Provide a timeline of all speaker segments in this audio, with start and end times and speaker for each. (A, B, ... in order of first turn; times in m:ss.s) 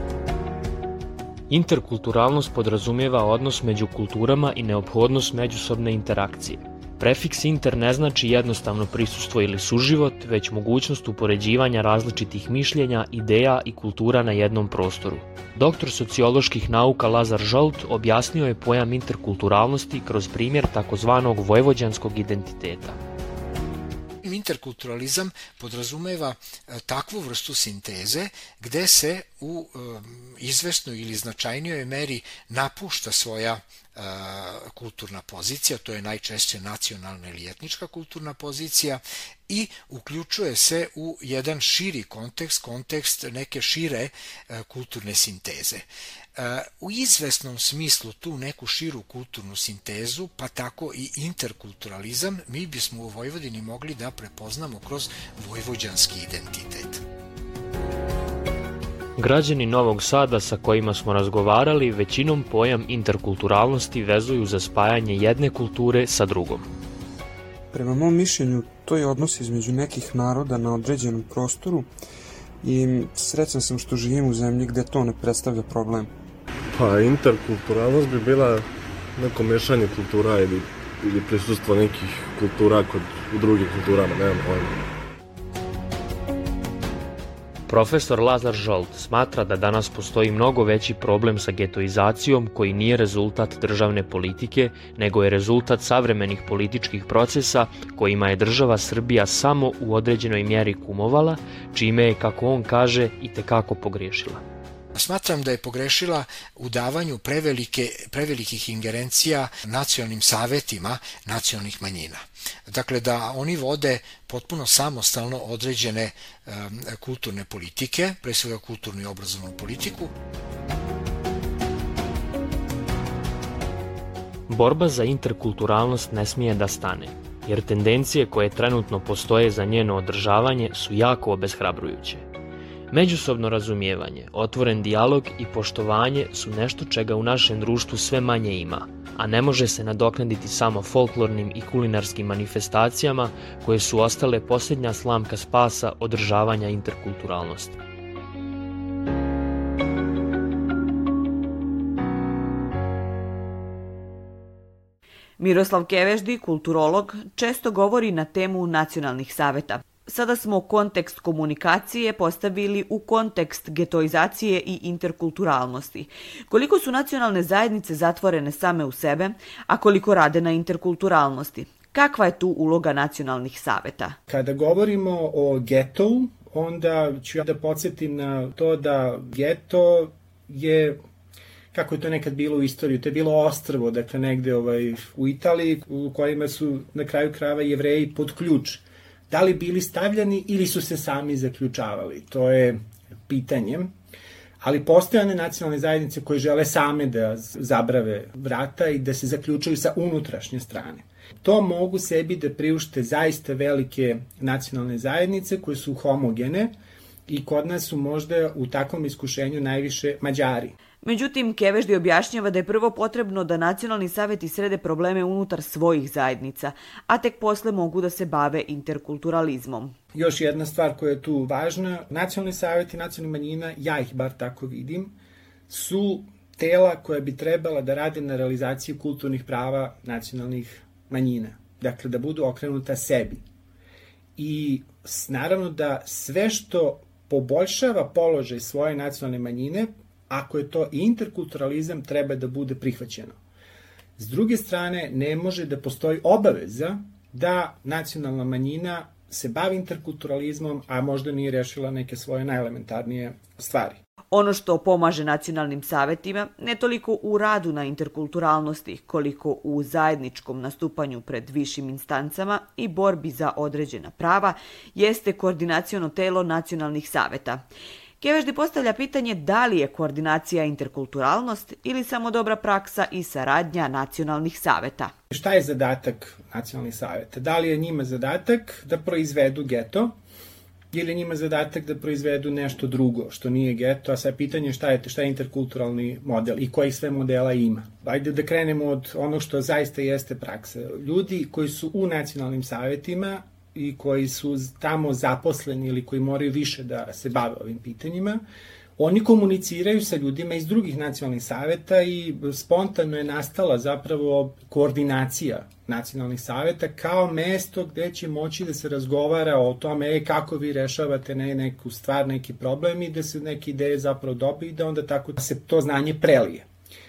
0:01.5-0:23.0 A
0:24.2-0:57.0 B
0:59.2-1:06.7 A
1:07.7-1:11.9 C
1:12.6-1:16.1 C
1:16.7-1:24.8 D
1:27.7-1:44.4 A
1:44.9-2:00.1 B
2:04.5-2:12.2 A
2:12.9-2:27.8 A
2:35.4-2:54.2 E
2:54.3-3:01.0 F
3:01.7-3:13.9 F
3:14.6-3:26.8 F
3:27.3-3:30.8 F
3:31.0-3:40.0 E
3:40.1-3:45.1 F
3:45.7-3:53.4 F
3:54.4-4:03.4 F
4:04.2-4:14.0 F
4:14.3-4:27.6 E
4:28.2-4:35.1 E
4:35.3-4:40.2 F
4:40.9-4:58.4 F
4:59.0-5:16.7 F